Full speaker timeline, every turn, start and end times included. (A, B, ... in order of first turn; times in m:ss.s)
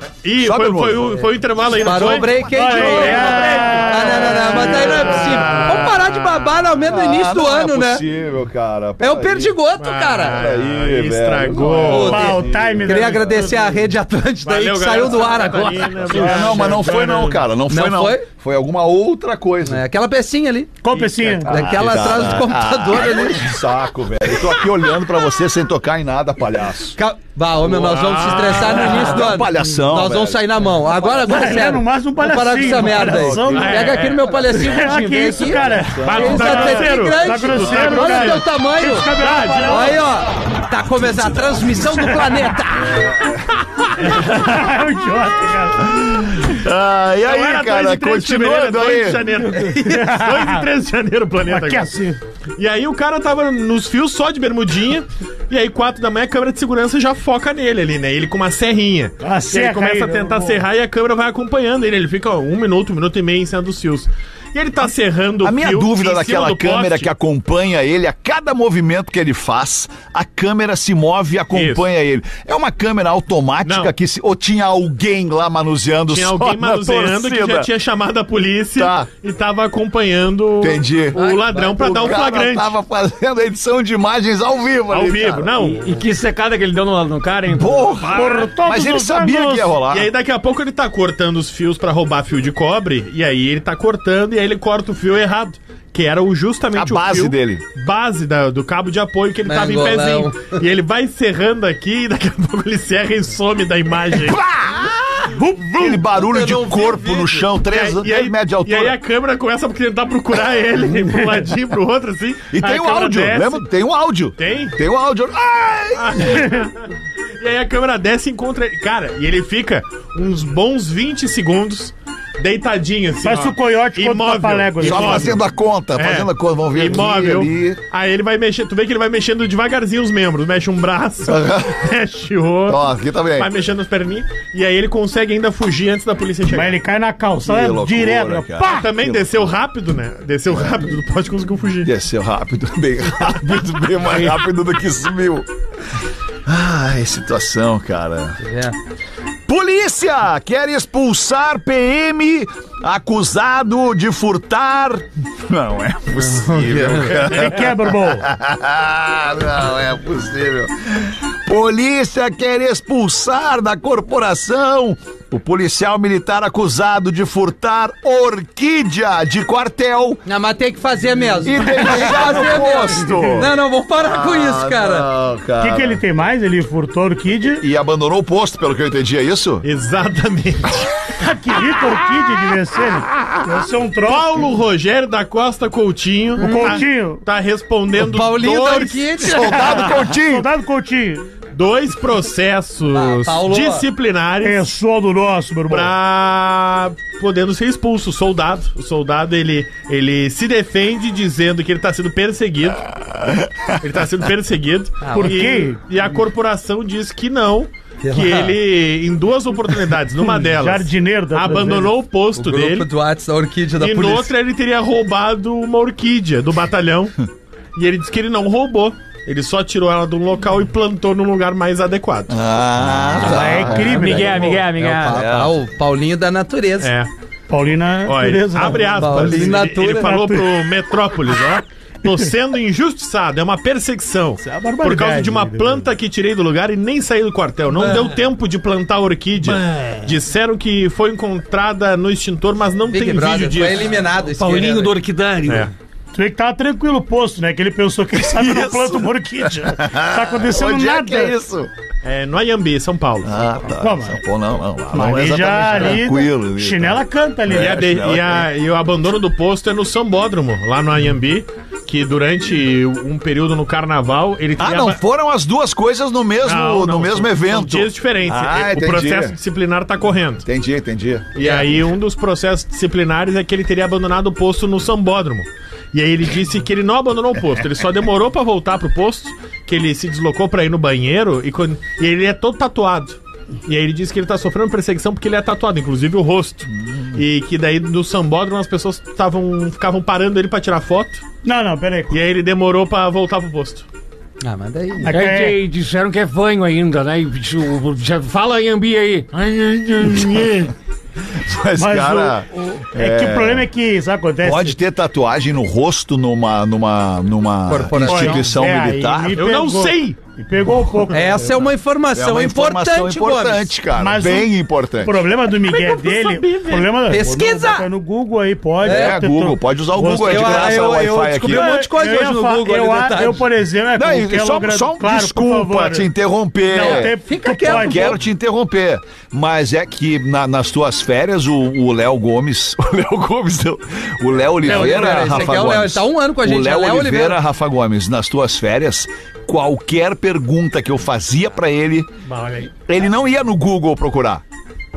0:00.2-0:06.0 A
0:00.4-0:01.1 B
0:01.2-0:08.0 C
0:02.4-0:05.5 D
0:04.5-0:05.7 B
0:06.8-0:09.6 B
0:09.0-0:10.4 C
0:09.8-0:12.4 A
0:10.3-0:13.3 B
0:11.8-0:16.0 C
0:12.0-0:13.8 D
0:14.4-0:17.4 A
0:16.1-0:19.8 B
0:16.1-0:17.1 D
0:17.7-0:18.3 C
0:19.6-0:20.8 C
0:20.8-0:21.5 D
0:20.9-0:21.5 A
0:21.4-0:27.0 B
0:21.5-0:23.6 C
0:27.0-0:39.1 C
0:27.6-0:29.2 A
0:28.6-0:30.4 B
0:31.0-0:31.4 B
0:31.2-0:40.0 D
0:32.9-0:33.6 B
0:33.5-0:34.2 A
0:35.7-0:36.4 B
0:36.0-0:38.4 A
0:39.1-0:40.0 A
0:39.6-0:43.2 C
0:44.0-0:46.0 D
0:45.8-0:49.2 B
0:47.2-0:51.9 A
0:49.5-0:50.6 D
0:49.6-0:50.0 C
0:51.4-0:52.2 D
0:52.6-1:07.1 A
0:59.2-1:00.6 D
1:05.4-1:17.7 B
1:11.5-1:11.9 A
1:13.6-1:13.9 A
1:16.1-1:22.8 A
1:18.8-1:19.1 B
1:20.6-1:25.7 B
1:21.2-1:22.2 C
1:24.9-1:25.9 A
1:25.8-1:28.1 E
1:27.5-1:30.1 B
1:28.1-1:29.7 D
1:29.9-1:44.4 A
1:36.7-1:37.6 B
1:39.5-1:40.6 C
1:44.1-1:49.0 B
1:45.4-1:46.0 D
1:46.1-1:47.5 C
1:47.6-1:53.6 A
1:52.5-1:56.4 B
1:54.4-1:54.8 A
1:55.9-1:56.9 A
1:56.3-1:56.7 D
1:57.4-2:05.4 A
2:03.2-2:05.4 D
2:04.8-2:07.8 B
2:06.0-2:12.8 A
2:11.2-2:11.8 B
2:12.7-2:13.5 B
2:13.4-2:16.8 A
2:16.5-2:18.9 D
2:17.4-2:19.3 B
2:18.7-2:21.9 A
2:21.8-2:25.5 B
2:26.5-2:28.4 B
2:28.4-2:28.8 C
2:29.5-2:50.2 B
2:36.2-2:37.2 C
2:37.1-2:38.3 D
2:50.3-2:55.1 C
2:51.4-2:56.0 B
2:52.1-2:53.4 D
2:55.6-2:57.6 D
2:57.6-2:59.7 B
2:59.6-3:00.8 A
3:01.2-3:04.5 D
3:04.0-3:09.2 A
3:06.4-3:06.8 C
3:06.4-3:07.2 D
3:08.0-3:09.9 C
3:09.2-3:10.5 B
3:09.3-3:11.3 D
3:11.5-3:14.7 A
3:12.9-3:13.8 C
3:14.4-3:15.9 D
3:15.7-3:22.9 A
3:23.2-3:23.7 B
3:23.8-3:32.9 A
3:25.0-3:25.4 C
3:25.2-3:25.8 D
3:28.0-3:28.6 C
3:30.2-3:31.9 D
3:32.4-3:34.3 C
3:33.8-3:37.2 A
3:37.8-3:42.4 A
3:42.3-3:44.2 B
3:43.2-3:44.6 D
3:43.2-3:46.9 C
3:43.7-3:45.2 E
3:45.1-3:45.6 B
3:46.8-3:47.1 A
3:47.5-3:50.6 D
3:48.0-4:04.0 A
3:48.8-3:50.2 C
3:54.4-3:55.8 D
3:57.8-3:58.1 C
3:59.4-4:00.2 E
4:02.9-4:04.9 C
4:04.4-4:05.7 E
4:06.1-4:11.3 D
4:08.1-4:11.7 B
4:12.0-4:13.4 A
4:13.2-4:18.5 B
4:13.8-4:14.2 D
4:14.9-4:17.8 D
4:17.5-4:25.0 A
4:24.6-4:29.4 B
4:26.4-4:30.4 A
4:30.4-4:31.3 B
4:31.4-4:51.2 A
4:46.8-4:47.2 B
4:51.4-4:52.1 D
4:52.1-4:53.8 A
4:54.4-4:55.1 C
4:55.0-4:55.6 D
4:55.1-5:00.7 E
5:01.3-5:03.7 B
5:01.8-5:04.8 D
5:04.4-5:09.4 B
5:07.7-5:08.5 C
5:08.0-5:11.7 D
5:09.4-5:10.2 A
5:11.1-5:13.7 C
5:12.1-5:15.2 B
5:14.0-5:20.9 D
5:15.5-5:17.0 A
5:17.1-5:17.9 C
5:18.8-5:19.2 C
5:18.8-5:21.8 B
5:20.1-5:23.4 C
5:21.4-5:26.1 D
5:24.0-5:42.1 B
5:26.7-5:28.2 D
5:26.8-5:28.2 C
5:34.6-5:37.4 C
5:34.6-5:35.6 D
5:42.3-5:42.7 A
5:42.9-5:44.4 B